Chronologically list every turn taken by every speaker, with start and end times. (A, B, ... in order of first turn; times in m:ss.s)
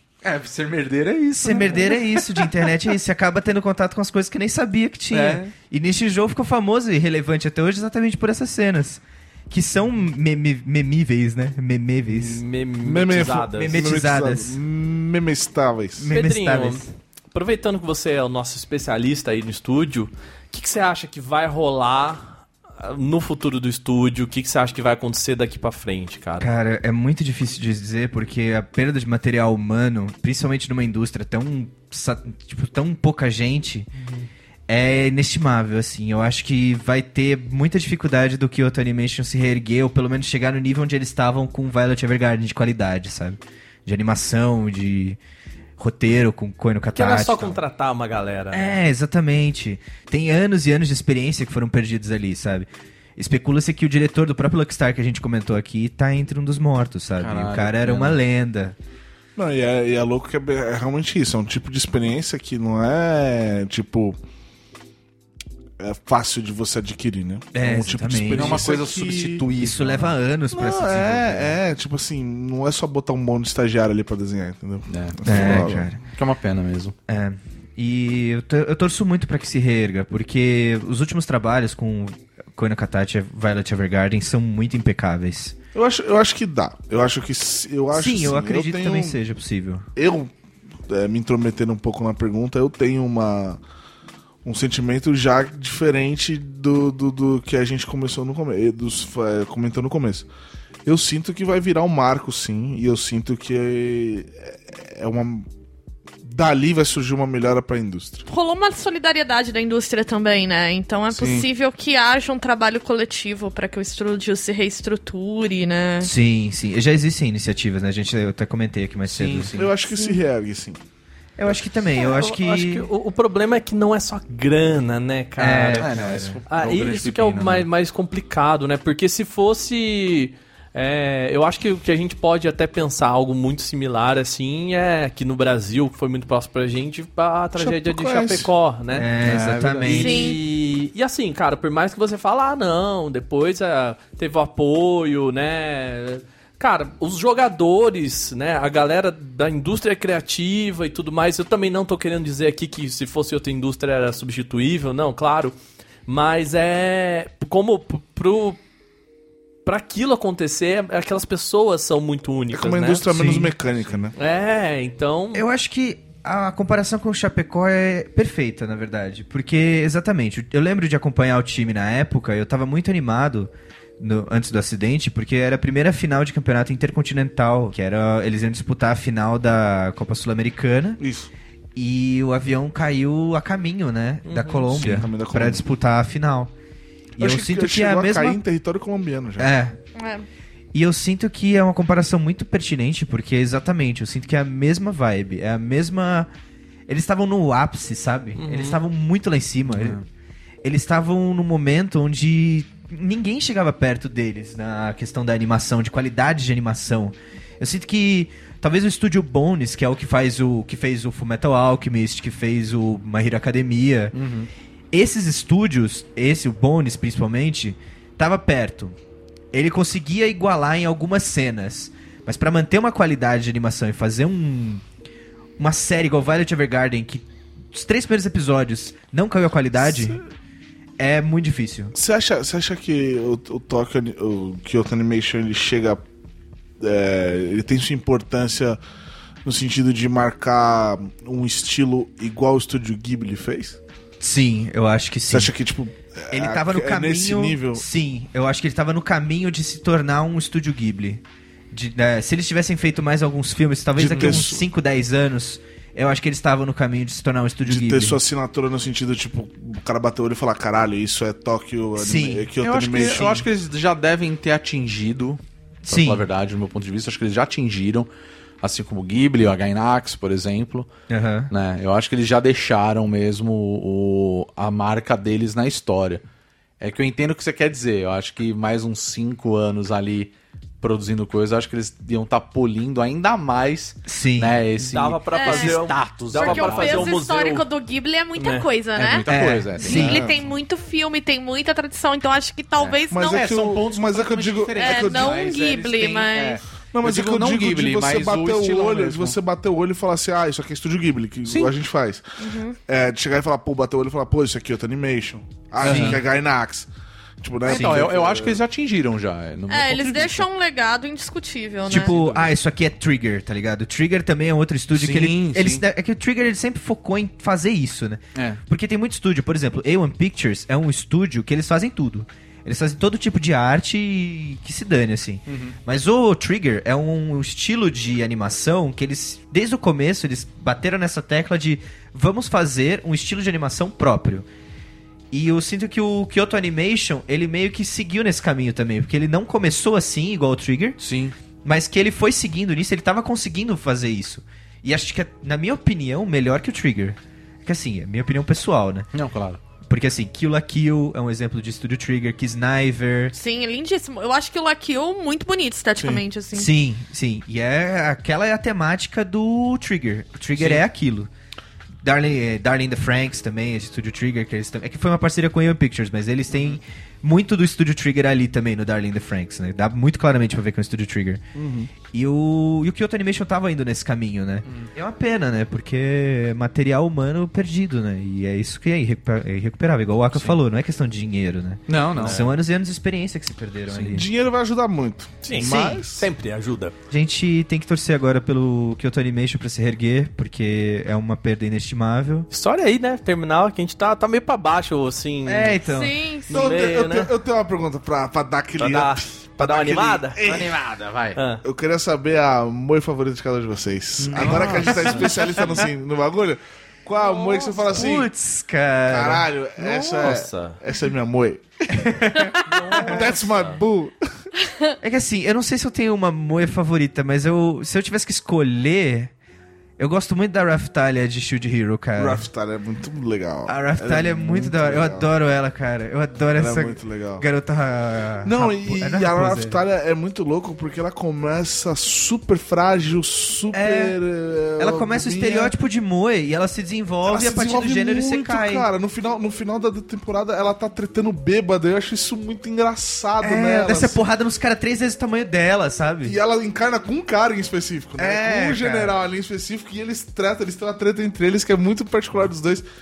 0:00.2-0:02.7 A
0:01.4-0:12.4 B
0:05.1-0:05.5 A
0:12.1-0:13.8 C
0:12.8-0:16.1 D
0:13.5-0:14.6 B
0:16.0-0:16.9 B
0:16.1-0:26.5 C
0:26.4-0:33.9 B
0:34.0-0:34.3 C
0:34.7-0:45.2 B
0:45.8-0:47.6 B
0:46.9-0:48.8 C
0:48.5-0:58.8 B
0:57.2-0:58.2 A
0:59.4-1:04.2 D
1:05.8-1:09.5 D
1:07.5-1:08.7 B
1:08.3-1:10.1 A
1:09.6-1:11.6 B
1:10.5-1:15.9 D
1:14.9-1:16.9 A
1:15.2-1:16.0 B
1:17.1-1:25.6 B
1:25.7-1:29.2 D
1:27.9-1:29.9 B
1:30.0-1:30.3 D
1:30.9-1:33.6 D
1:34.4-1:40.3 D
1:40.8-1:45.5 D
1:46.2-1:48.2 D
1:48.3-1:56.1 E
1:51.1-1:51.5 D
1:56.0-1:59.6 B
1:59.1-1:59.7 A
1:59.5-2:00.8 D
2:01.4-2:02.9 B
2:01.9-2:05.9 C
2:05.4-2:06.4 B
2:05.8-2:07.7 A
2:06.5-2:35.5 C
2:17.6-2:18.5 D
2:18.9-2:20.3 B
2:19.2-2:20.0 A
2:19.9-2:20.4 E
2:36.1-2:38.6 C
2:39.6-2:43.0 C
2:42.5-2:44.1 D
2:43.1-2:43.5 B
2:44.2-2:45.4 C
2:45.3-3:01.0 B
3:01.0-3:01.3 D
3:01.8-3:06.5 B
3:04.2-3:04.7 C
3:04.7-3:05.6 D
3:04.8-3:05.0 A
3:07.2-3:08.4 B
3:07.2-3:09.5 D
3:09.4-3:09.8 B
3:10.0-3:10.2 E
3:10.7-3:16.3 B
3:16.9-3:20.0 B
3:18.4-3:18.8 C
3:19.7-3:20.0 A
3:20.6-3:34.2 B
3:34.1-3:34.5 A
3:34.9-3:39.0 B
3:39.5-3:44.8 B
3:45.6-3:50.2 B
3:49.8-3:50.2 D
3:51.0-3:51.9 B
3:51.9-3:56.0 D
3:56.8-3:58.8 D
3:59.4-4:03.8 D
4:04.2-4:05.5 B
4:05.3-4:07.8 D
4:06.3-4:18.2 B
4:14.0-4:14.6 D
4:17.6-4:23.4 D
4:22.0-4:22.5 B
4:22.6-4:28.1 A
4:25.8-4:26.3 B
4:28.6-4:30.9 A
4:31.1-4:31.5 B
4:31.5-4:36.2 A
4:36.8-4:47.2 A
4:44.1-4:44.6 B
4:44.8-4:47.7 C
4:45.3-4:49.3 E
4:48.4-4:48.7 C
4:48.9-4:50.2 A
4:49.3-4:50.2 B
4:49.8-4:53.5 E
4:49.9-4:50.4 D
4:52.8-4:59.4 A
4:53.1-4:55.6 D
4:54.8-4:56.6 E
4:56.9-5:02.2 D
5:01.4-5:01.7 A
5:02.4-5:02.8 E
5:02.9-5:06.9 D
5:05.8-5:06.2 A
5:05.8-5:06.2 B
5:07.4-5:08.6 D
5:07.6-5:10.4 A
5:07.7-5:08.0 B
5:09.7-5:12.2 E
5:11.9-5:34.5 B
5:11.9-5:12.5 A
5:14.9-5:15.8 A
5:18.3-5:18.6 A
5:25.5-5:25.8 A
5:35.3-5:41.0 B
5:41.0-5:41.3 A
5:41.6-5:49.1 B
5:49.1-5:49.6 A
5:49.8-5:53.3 B
5:53.3-5:56.7 E
5:56.0-5:56.2 D
5:56.5-6:01.3 B
6:02.0-6:11.4 B
6:12.1-6:24.3 B
6:20.3-6:20.6 A
6:21.9-6:22.4 A
6:22.2-6:22.5 C
6:23.9-6:24.2 A
6:24.1-6:26.2 D
6:25.4-6:26.9 C
6:25.5-6:26.0 B
6:27.1-6:32.5 B
6:32.5-6:35.8 C
6:35.4-6:36.2 B
6:35.8-6:36.7 E
6:36.5-6:37.3 C
6:36.5-6:40.8 D
6:38.8-6:40.4 C
6:40.4-6:41.4 A
6:41.4-6:41.6 C
6:41.6-6:48.3 D
6:44.2-6:45.4 A
6:44.4-6:45.8 B
6:44.7-6:45.1 C
6:47.9-6:49.5 B
6:49.1-6:51.6 D
6:49.8-6:50.8 C
6:51.9-6:53.1 B
6:52.6-6:53.8 C
6:53.0-6:54.4 D
6:55.0-6:59.3 B
7:00.0-7:02.4 B
7:02.2-7:05.3 D
7:03.6-7:09.8 B
7:06.6-7:07.4 D
7:08.4-7:15.7 D
7:13.7-7:14.2 B
7:14.8-7:18.9 B
7:17.2-7:24.2 D
7:23.4-7:26.4 B
7:26.2-7:32.8 D
7:28.2-7:29.2 B